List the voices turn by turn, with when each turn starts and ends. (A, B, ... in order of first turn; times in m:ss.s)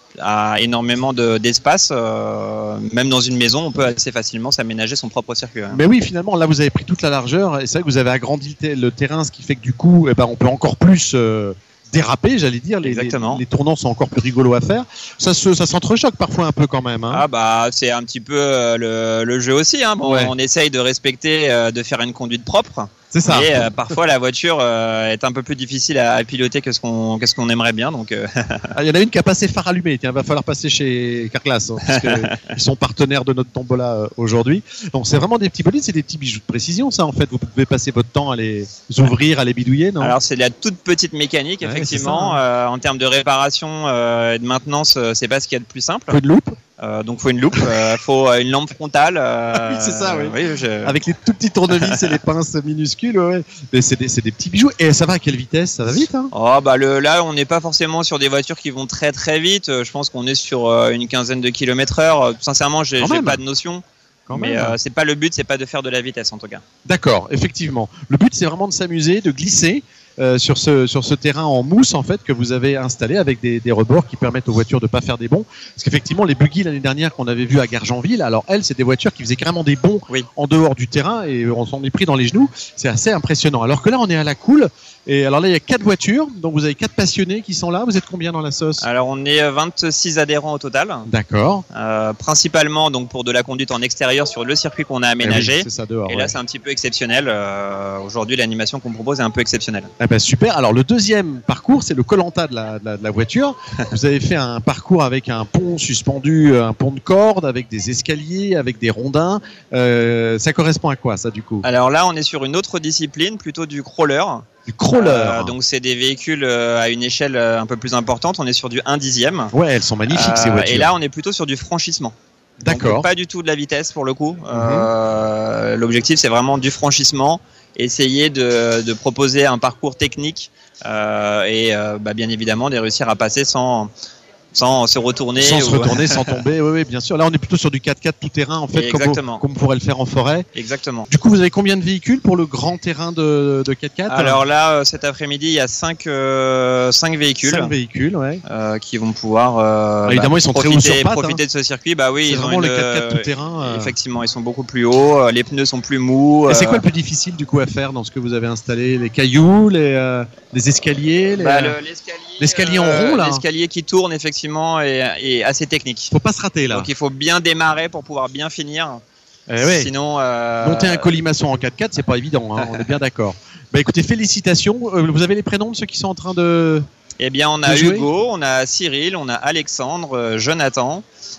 0:00.2-0:05.8 A
0:05.7-0:17.2 B
0:12.8-0:13.4 A
0:17.1-0:28.7 A
0:20.0-0:20.3 B
0:23.1-0:23.7 B
0:28.7-0:40.2 B
0:31.9-0:32.3 A
0:40.0-0:46.2 A
0:41.6-0:42.4 B
0:46.1-0:46.6 B
0:46.8-0:51.0 A
0:49.5-0:56.3 B
0:51.7-0:52.2 A
0:56.3-1:06.6 A
1:03.0-1:03.4 B
1:04.3-1:04.8 B
1:06.8-1:28.9 B
1:28.8-1:31.1 A
1:31.1-1:31.6 B
1:31.7-1:39.9 A
1:35.2-1:36.4 B
1:40.0-1:51.7 B
1:51.6-1:59.5 A
1:54.7-1:55.6 B
1:59.5-2:00.9 B
2:00.1-2:02.2 A
2:02.6-2:03.1 B
2:02.7-2:13.9 A
2:04.5-2:04.9 B
2:14.5-2:16.4 A
2:15.4-2:20.5 B
2:18.7-2:19.4 A
2:20.6-2:21.1 A
2:21.1-2:24.4 B
2:24.1-2:27.8 A
2:27.4-2:28.4 B
2:28.5-2:36.8 A
2:30.1-2:31.4 B
2:32.2-2:34.0 B
2:36.5-2:41.8 B
2:41.4-2:46.1 A
2:42.4-2:43.4 B
2:46.1-2:46.9 B
2:46.7-2:49.0 A
2:49.5-2:49.9 B
2:49.6-2:51.1 A
2:50.6-2:56.9 B
2:52.6-2:52.9 A
2:57.2-3:01.0 A
2:57.6-2:58.1 B